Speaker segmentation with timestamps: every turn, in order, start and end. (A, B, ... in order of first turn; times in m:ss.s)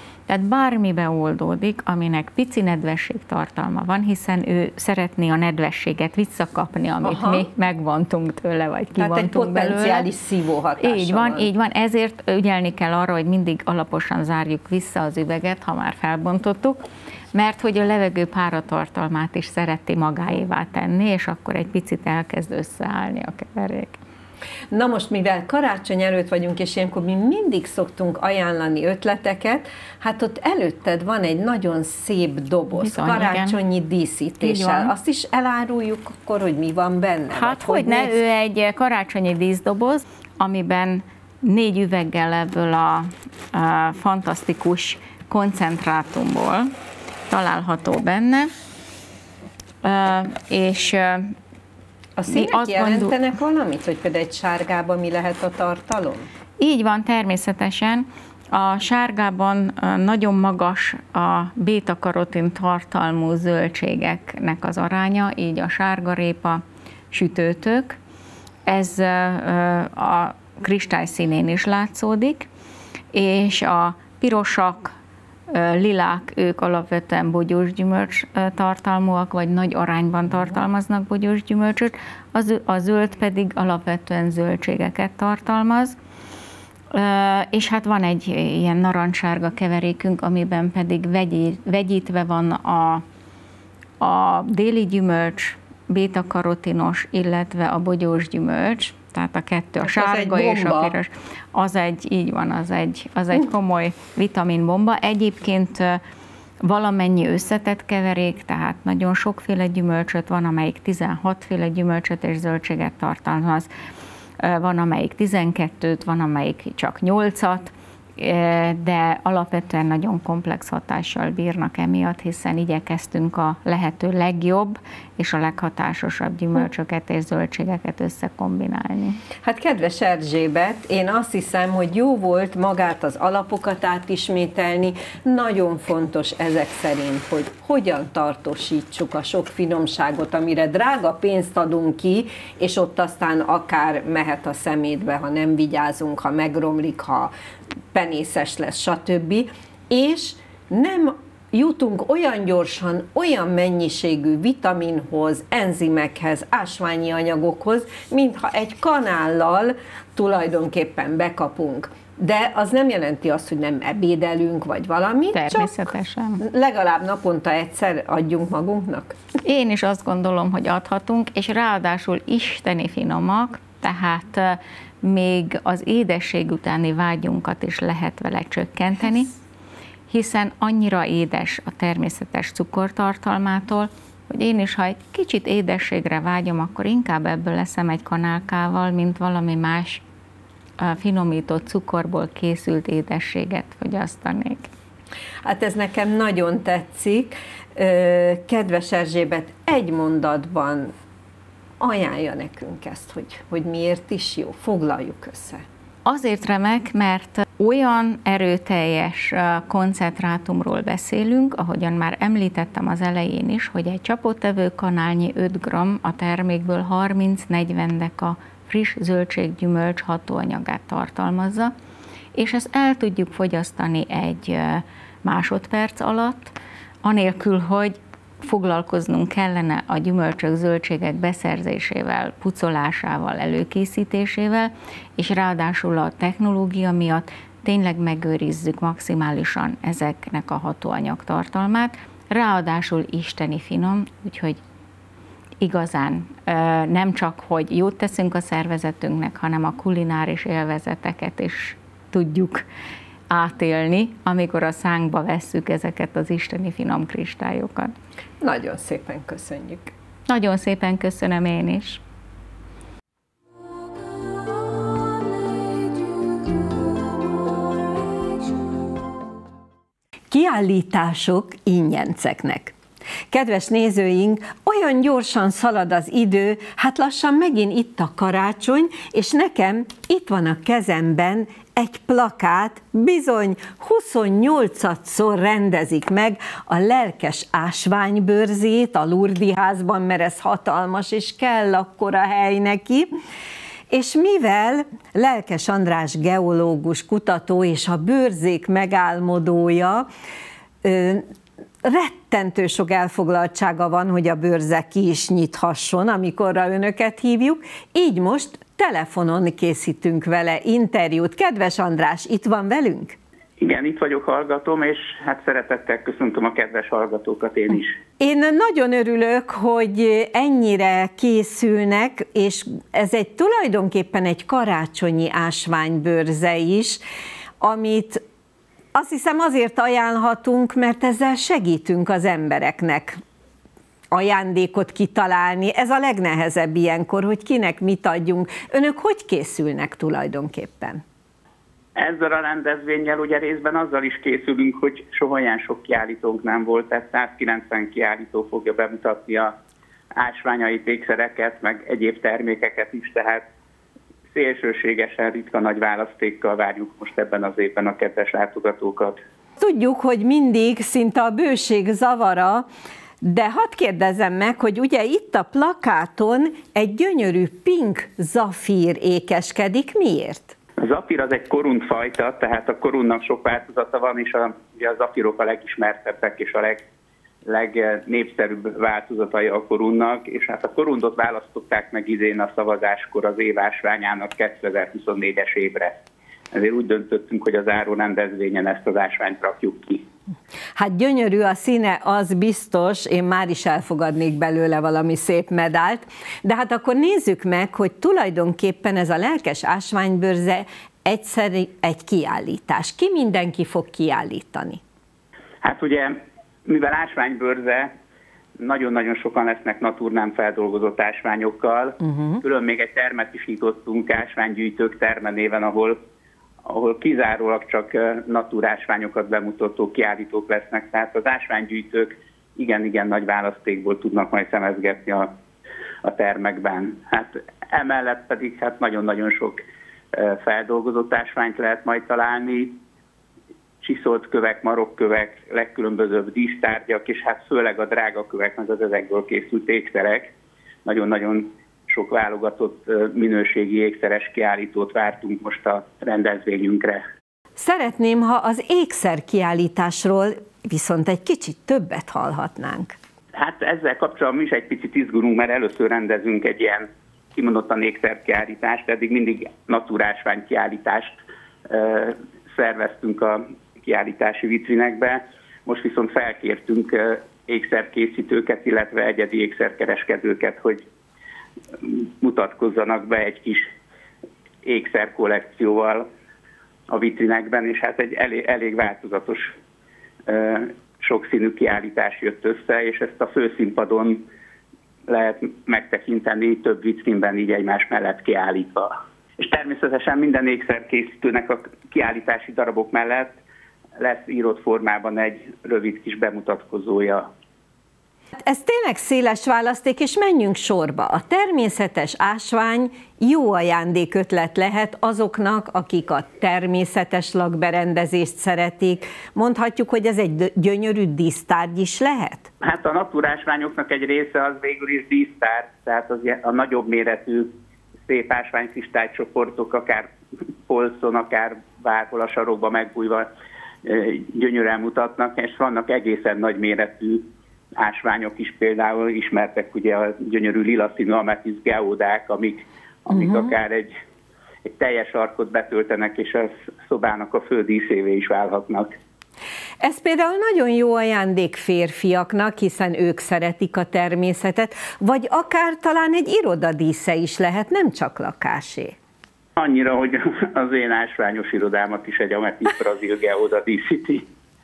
0:00.3-0:10.1 A
0:07.0-0:07.5 B
0:09.0-0:11.5 B
0:10.8-0:16.8 A
0:17.3-0:24.0 A
0:24.7-0:38.2 B
0:32.8-0:33.6 A
0:34.4-0:34.9 A
0:37.3-0:46.7 A
0:47.3-0:48.5 A
0:49.8-0:51.4 A
0:52.2-0:56.3 B
0:52.3-0:53.1 A
0:56.6-1:08.0 A
1:08.7-1:12.5 A
1:13.1-1:14.9 A
1:15.5-1:26.0 A
1:26.9-1:33.0 A
1:34.0-1:46.0 A
1:39.8-1:41.0 B
1:46.6-1:53.7 A
1:54.4-2:09.2 A
2:09.4-2:27.3 B
2:27.9-2:45.8 B
2:45.3-2:46.4 A
2:46.4-2:49.2 B
2:49.4-2:59.3 A
3:00.1-3:10.0 A
3:10.8-3:14.7 A
3:15.4-3:20.9 B
3:21.8-3:25.6 B
3:26.1-3:41.7 A
3:42.3-4:04.6 A
4:05.6-4:12.6 A
4:13.3-4:18.0 A
4:18.4-4:19.9 B
4:20.3-4:22.0 A
4:30.3-4:32.8 B
4:33.3-4:53.1 B
4:53.9-5:00.1 B
5:00.8-5:01.3 B
5:01.8-5:13.2 B
5:13.6-5:18.0 C
5:18.2-5:27.0 B
5:27.6-5:28.2 B
5:29.0-5:33.2 B
5:34.1-5:41.0 B
5:42.0-5:49.5 C
5:50.2-5:53.4 C
5:54.3-5:59.2 C
5:59.6-6:02.7 B
6:03.2-6:10.6 B
6:10.8-6:16.8 C
6:17.5-6:26.0 C
6:26.5-6:30.0 C
6:30.8-6:44.8 B
6:45.6-6:47.9 C
6:48.6-6:56.0 C
6:52.0-6:52.4 B
6:56.6-7:05.3 C
7:06.0-7:09.6 C
7:10.1-7:12.8 C
7:13.8-7:20.3 C
7:20.8-7:27.0 C
7:27.6-7:33.0 B
7:33.4-7:41.2 C
7:41.7-7:50.8 C
7:51.8-7:53.7 C
7:54.6-7:56.1 C
7:56.9-7:59.5 C
8:00.3-8:04.2 C
8:05.1-8:13.3 C
8:14.0-8:17.3 C
8:18.4-8:32.5 B
8:32.6-8:37.5 C
8:38.1-8:40.1 C
8:40.7-8:43.3 C
8:43.8-8:47.2 C
8:47.8-8:53.9 C
8:53.1-8:53.5 B
8:54.6-8:58.9 C
8:59.8-9:09.0 B
9:09.6-9:14.2 C